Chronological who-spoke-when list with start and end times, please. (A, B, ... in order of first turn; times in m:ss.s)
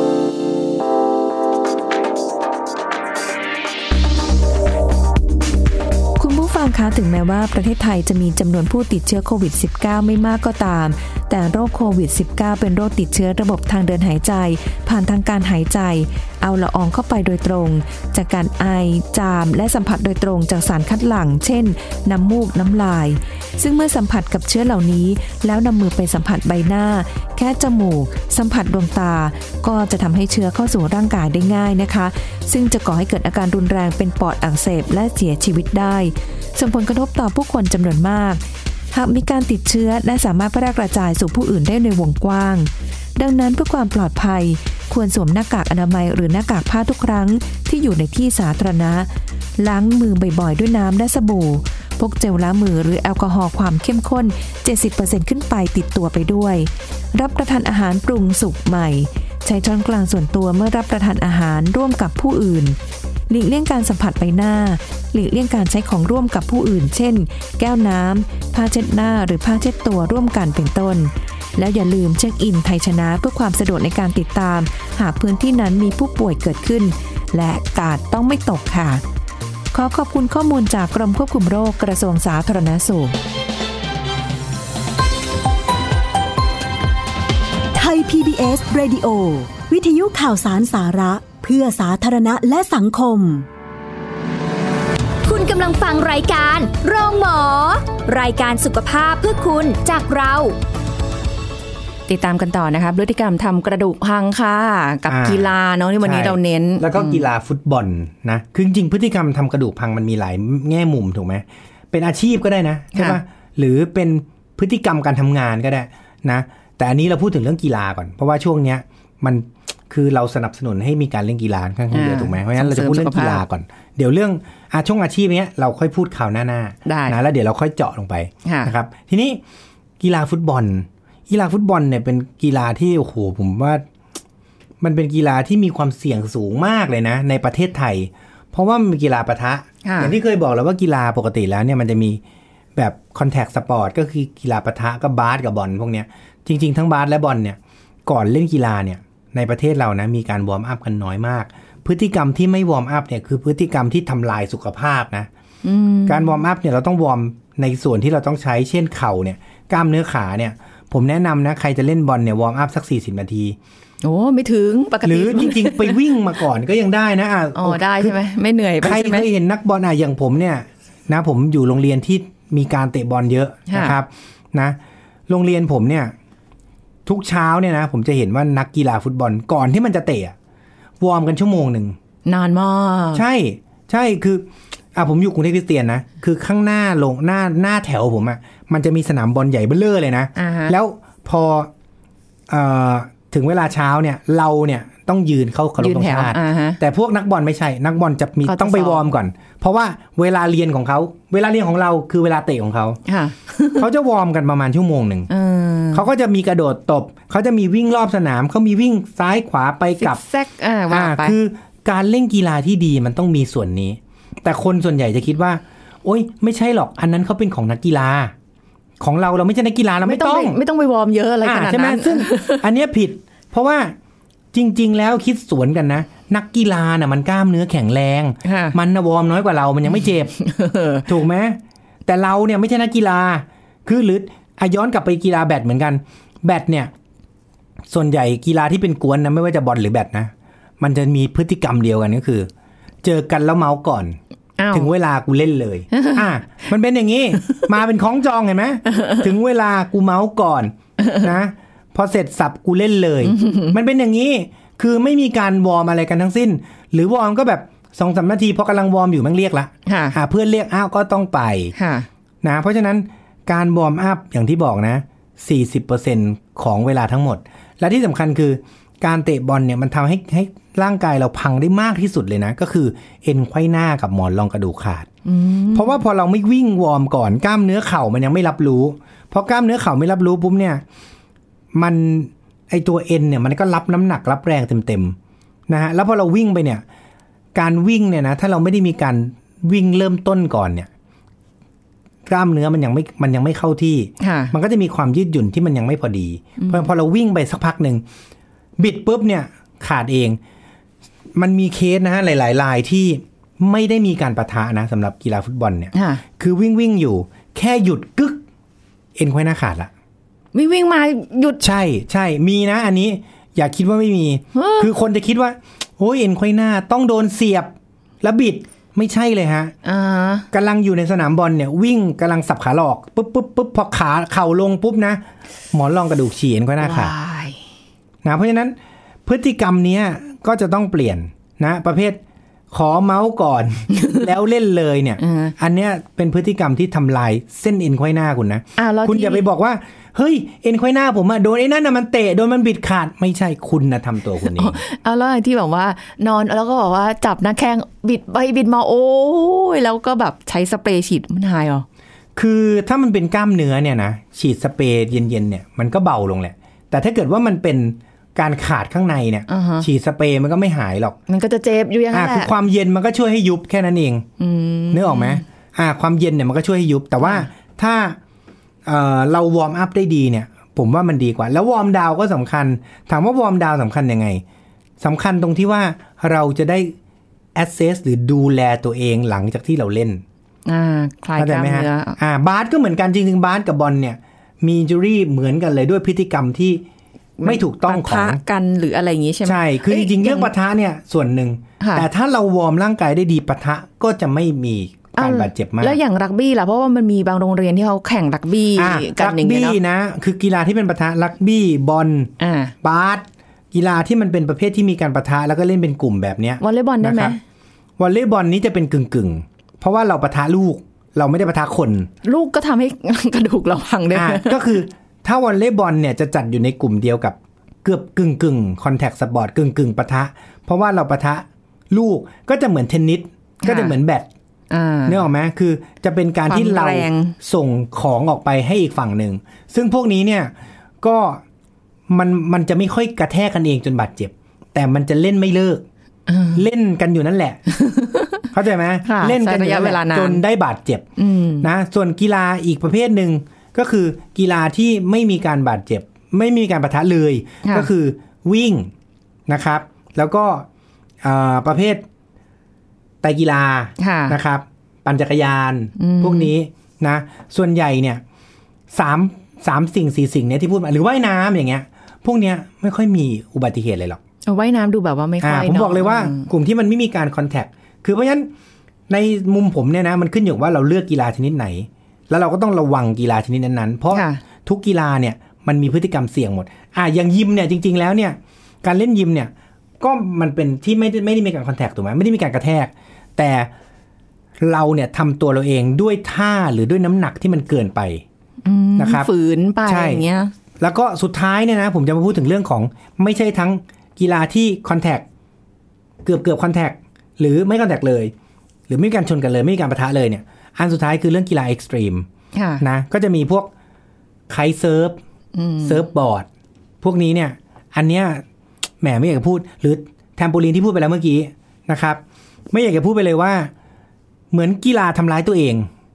0:06.2-1:02.8 A
1:03.3-1:19.0 A
1:19.7-1:23.2 A
1:27.7-1:33.4 B
1:35.2-1:40.6 C
1:42.1-1:47.2 D
1:45.1-2:09.4 E
1:52.9-1:53.2 D
2:01.9-2:03.4 D
2:06.8-2:07.2 D
2:08.4-2:08.7 D
2:10.0-2:13.8 E
2:14.8-2:22.2 E
2:19.8-2:20.1 D
2:22.8-2:35.3 E
2:35.6-2:36.4 D
2:36.1-2:43.6 E
2:44.0-2:46.0 D
2:45.0-2:48.2 E
2:47.6-2:49.3 D
2:48.8-2:54.8 E
2:53.7-2:54.0 D
2:55.3-2:56.1 E
2:57.0-3:00.3 E
3:01.0-3:02.0 E
3:02.2-3:03.2 D
3:03.1-3:11.7 E
3:10.4-3:10.8 D
3:12.5-3:23.0 E
3:15.8-3:16.8 D
3:18.4-3:19.0 D
3:23.1-3:23.9 D
3:23.8-3:25.3 E
3:25.3-3:26.0 D
3:25.9-3:30.2 E
3:30.0-3:31.4 D
3:30.9-3:38.3 E
3:39.0-3:40.6 E
3:40.0-3:42.6 D
3:41.4-3:43.9 E
3:44.5-3:50.4 E
3:48.4-3:48.8 D
3:50.4-3:51.0 D
3:51.0-3:56.9 E
3:57.9-4:02.5 E
4:03.0-4:04.2 E
4:04.6-4:04.9 D
4:04.7-4:21.7 E
4:05.9-4:06.2 D
4:13.3-4:13.7 D
4:19.8-4:20.2 D
4:21.8-4:22.1 D
4:22.4-4:35.1 E
4:35.2-4:36.0 D
4:35.7-4:40.8 E
4:41.7-4:45.2 E
4:45.7-4:46.8 E
4:47.5-4:50.9 E
4:52.2-4:58.0 E
4:54.2-4:54.5 D
4:56.6-4:56.9 D
4:58.8-5:00.4 E
5:01.4-5:08.4 E
5:05.9-5:06.2 D
5:09.2-5:09.9 E
5:10.5-5:11.6 D
5:11.6-5:19.7 E
5:14.5-5:14.9 D
5:19.8-5:20.5 D
5:20.5-5:25.2 E
5:25.7-5:27.1 E
5:26.8-5:27.6 D
5:28.2-5:32.2 E
5:32.7-5:44.8 E
5:35.2-5:35.5 D
5:38.8-5:39.5 D
5:44.4-5:51.8 D
5:52.4-6:01.2 E
5:59.5-5:59.9 D
6:01.3-6:02.5 D
6:02.1-6:04.2 E
6:04.4-6:05.4 D
6:04.9-6:08.2 E
6:07.2-6:07.5 D
6:08.8-6:14.4 E
6:15.0-6:17.0 E
6:17.5-6:20.2 E
6:20.6-6:22.2 D
6:21.4-6:26.8 E
6:27.4-6:30.5 D
6:27.4-6:28.4 E
6:29.4-6:36.0 E
6:31.8-6:32.1 D
6:35.2-6:39.8 D
6:38.8-6:47.4 E
6:42.4-6:42.7 D
6:46.6-6:47.4 D
6:48.0-6:52.1 E
6:52.2-6:54.8 D
6:54.1-7:04.3 E
7:03.6-7:04.0 D
7:04.7-7:05.2 D
7:05.0-7:11.4 E
7:06.5-7:07.4 D
7:12.1-7:15.8 E
7:16.3-7:16.6 D
7:16.5-7:17.6 E
7:17.7-7:18.4 D
7:18.5-7:21.0 E
7:19.0-7:20.4 D
7:21.2-7:21.7 D
7:21.6-7:28.9 E
7:29.5-7:30.6 E
7:31.2-7:32.0 E
7:33.2-7:38.2 E
7:34.0-7:34.4 D
7:36.0-7:36.5 D
7:38.9-7:44.2 E
7:44.4-7:46.5 D
7:45.4-7:48.5 E
7:49.1-8:03.7 E
7:54.1-7:54.4 D
8:04.6-8:08.2 E
8:08.6-8:10.5 D
8:09.0-8:09.3 E
8:09.8-8:10.2 E
8:10.8-8:15.2 E
8:16.2-8:18.3 E
8:18.9-8:22.3 E
8:22.5-8:22.8 D
8:22.8-8:23.7 E
8:24.5-8:25.2 E
8:25.5-8:26.0 D
8:25.8-8:26.5 E
8:27.0-8:28.4 E
8:29.0-8:33.7 E
8:34.5-8:35.9 E